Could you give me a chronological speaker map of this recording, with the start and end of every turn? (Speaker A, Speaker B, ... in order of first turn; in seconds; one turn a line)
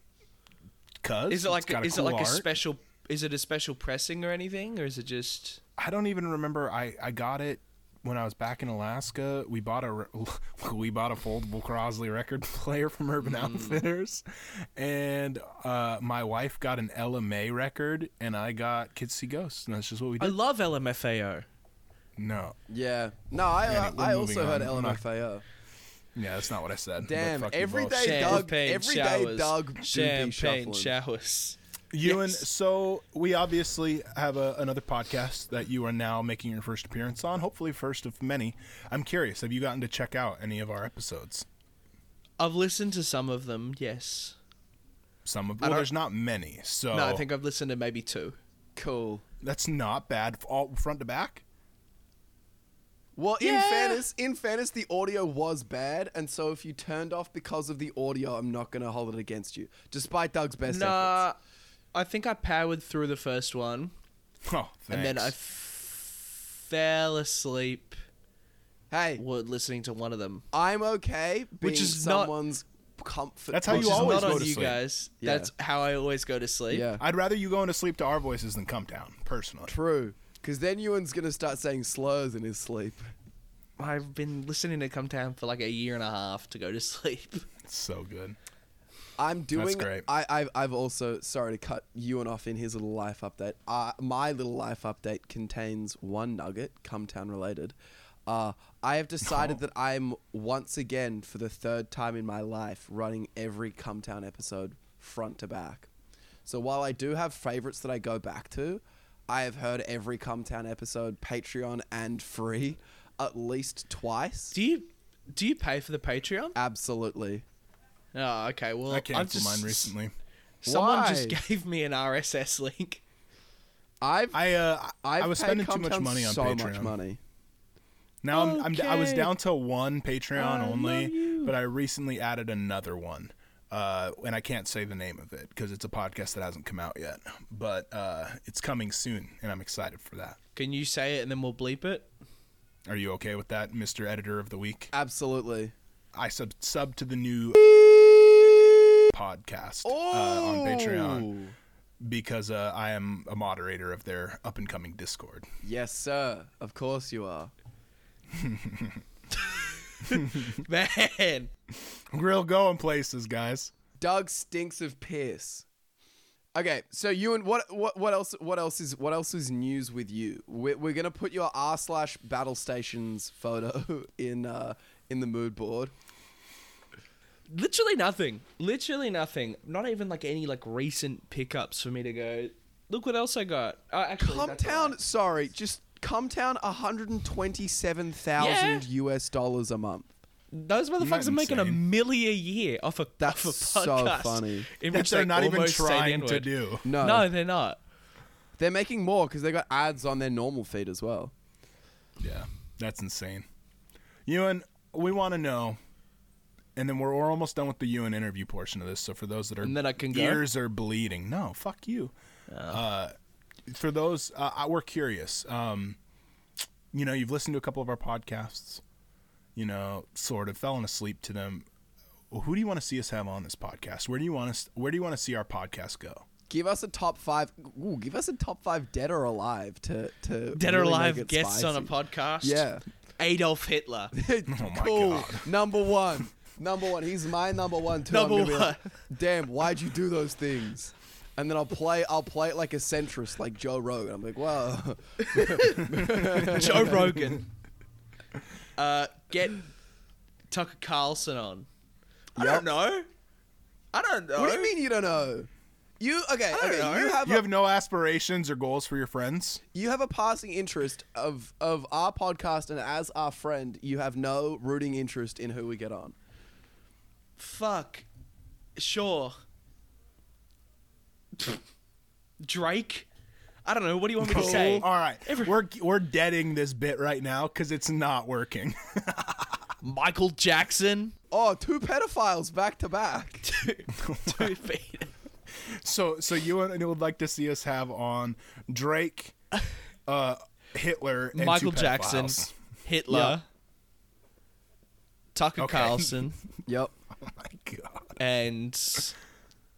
Speaker A: 1.0-2.5
Speaker B: 1.3-5.6
Speaker A: 5.8-20.4
Speaker B: 13.2-13.8
Speaker B: 20.2-21.4
Speaker A: 22.2-22.6
Speaker C: 22.7-25.4
Speaker A: 23.6-25.0
Speaker A: 26.1-28.4
Speaker C: 27.0-30.9
Speaker B: 28.0-32.4
Speaker A: 31.9-41.5
Speaker B: 42.4-44.4
Speaker A: 45.2-47.2
Speaker B: 45.6-45.9
Speaker B: 46.9-48.4
Speaker C: 48.8-49.2
Speaker A: 49.4-51.4
Speaker C: 53.1-61.2
Speaker B: 53.4-54.0
Speaker B: 60.7-61.4
Speaker B: 61.9-63.9
Speaker A: 64.4-65.3
Speaker B: 64.9-68.0
Speaker C: 68.9-69.2
Speaker B: 69.2-70.5
Speaker C: 70.5-74.5
Speaker B: 71.6-72.3
Speaker A: 73.5-74.8
Speaker B: 73.7-76.9
Speaker C: 75.2-75.5
Speaker C: 76.7-77.0
Speaker A: 77.0-79.7
Speaker C: 79.7-83.1
Speaker B: 83.8-87.5
Speaker A: 87.6-88.4
Speaker C: 89.2-97.7
Speaker A: 89.5-90.1
Speaker C: 98.3-105.9
Speaker A: 99.2-99.6
Speaker C: 106.5-114.5
Speaker B: 114.5-116.5
Speaker C: 116.5-117.4
Speaker B: 118.1-119.9
Speaker A: 118.9-120.1
Speaker B: 120.6-123.0
Speaker C: 120.7-121.4
Speaker C: 124.0-124.5
Speaker A: 124.3-126.9
Speaker C: 125.0-127.2
Speaker A: 128.2-140.4
Speaker B: 128.3-129.3
Speaker B: 130.3-131.5
Speaker B: 140.6-142.1
Speaker A: 142.9-144.9
Speaker C: 144.9-145.7
Speaker A: 146.1-147.6
Speaker A: 149.1-151.3
Speaker C: 149.8-151.5
Speaker A: 152.0-155.5
Speaker C: 155.6-157.5
Speaker A: 158.3-159.0
Speaker B: 159.4-161.5
Speaker A: 160.1-160.6
Speaker A: 162.1-163.7
Speaker C: 164.0-165.6
Speaker C: 166.5-175.9
Speaker B: 177.5-184.9
Speaker C: 184.2-190.1
Speaker B: 188.4-188.8
Speaker B: 190.5-197.8
Speaker A: 191.0-191.8
Speaker C: 193.2-194.7
Speaker A: 194.9-196.8
Speaker C: 196.8-197.3
Speaker C: 198.6-201.3
Speaker A: 202.2-203.4
Speaker A: 204.2-205.8
Speaker A: 206.8-212.1
Speaker B: 209.6-210.4
Speaker B: 212.5-212.8
Speaker A: 212.7-213.1
Speaker A: 213.7-216.0
Speaker A: 216.9-218.8
Speaker A: 219.6-221.7
Speaker A: 222.3-226.2
Speaker C: 226.5-232.8
Speaker B: 230.5-232.7
Speaker B: 233.2-234.1
Speaker C: 234.1-247.2
Speaker A: 234.5-235.5
Speaker B: 238.1-238.9
Speaker B: 245.2-247.4
Speaker B: 248.8-249.6
Speaker B: 250.5-251.7
Speaker C: 252.4-252.7
Speaker B: 252.4-253.1
Speaker B: 253.9-254.7
Speaker C: 254.4-255.5
Speaker C: 256.0-257.5
Speaker B: 256.5-257.2
Speaker A: 257.2-259.6
Speaker C: 259.7-266.1
Speaker B: 267.4-268.0
Speaker B: 268.8-269.3
Speaker B: 272.4-273.1
Speaker B: 273.6-275.5
Speaker A: 274.2-279.7
Speaker C: 274.3-274.8
Speaker B: 279.8-281.1
Speaker C: 281.3-283.4
Speaker B: 283.4-285.1
Speaker A: 283.9-284.6
Speaker A: 285.6-289.3
Speaker A: 290.1-292.5
Speaker B: 291.3-293.4
Speaker C: 293.1-293.4
Speaker B: 295.3-296.4
Speaker A: 295.6-296.2
Speaker C: 296.7-296.9
Speaker A: 297.2-298.2
Speaker B: 298.2-299.1